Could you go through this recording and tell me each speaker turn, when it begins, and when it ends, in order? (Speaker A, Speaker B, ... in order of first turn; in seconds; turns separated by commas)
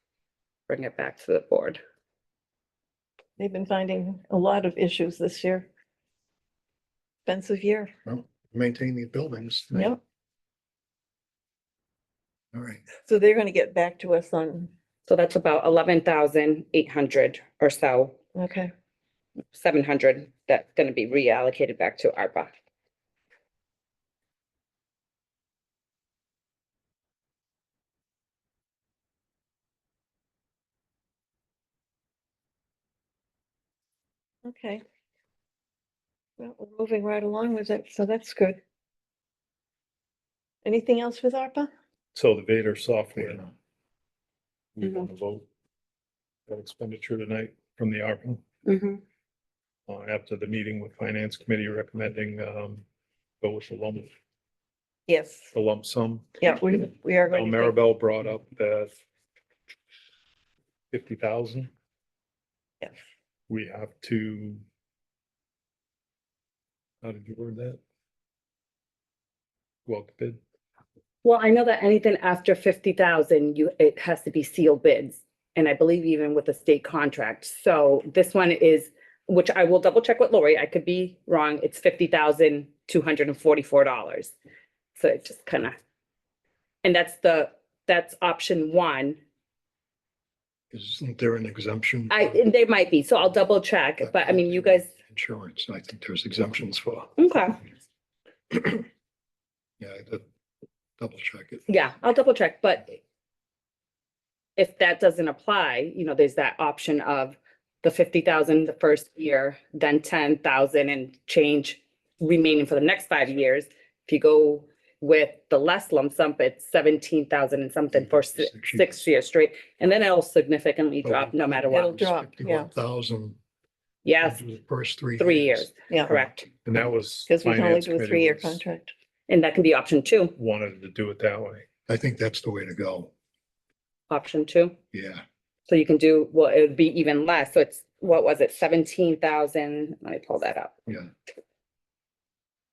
Speaker A: 0.7-1.8, Speaker B: 3.4-5.7, Speaker B: 7.2-7.9, Speaker C: 8.0-9.9, Speaker B: 9.7-10.0, Speaker C: 12.5-12.8, Speaker B: 13.0-14.7, Speaker A: 15.1-18.1, Speaker B: 18.3-18.7, Speaker A: 19.5-22.5, Speaker B: 34.4-34.8, Speaker B: 36.4-38.6, Speaker B: 40.6-41.7, Speaker D: 42.1-43.5, Speaker D: 44.7-45.5, Speaker D: 46.5-48.4, Speaker A: 48.6-49.0, Speaker D: 49.9-52.8, Speaker D: 53.4-54.1, Speaker B: 55.1-55.5, Speaker D: 55.5-56.4, Speaker B: 56.4-57.8, Speaker D: 57.3-58.9, Speaker D: 60.9-61.7, Speaker D: 63.5-64.6, Speaker D: 67.0-67.8, Speaker D: 69.8-70.4, Speaker A: 71.2-84.3, Speaker A: 85.0-85.8, Speaker A: 86.8-89.2, Speaker C: 90.7-92.3, Speaker A: 92.1-94.9, Speaker C: 94.0-97.2, Speaker A: 97.2-97.6, Speaker C: 98.5-98.8, Speaker C: 99.8-100.2, Speaker C: 101.0-101.6, Speaker A: 101.7-103.0, Speaker A: 104.6-122.0, Speaker C: 117.9-119.0, Speaker C: 121.0-123.4, Speaker B: 121.7-122.7, Speaker A: 124.0-124.4, Speaker C: 124.2-126.4, Speaker A: 125.2-126.5, Speaker B: 125.9-126.1, Speaker D: 126.6-128.6, Speaker B: 127.3-128.9, Speaker A: 129.3-130.3, Speaker D: 130.3-131.7, Speaker C: 131.9-133.1, Speaker A: 134.1-134.7, Speaker C: 134.9-135.2, Speaker A: 135.7-140.8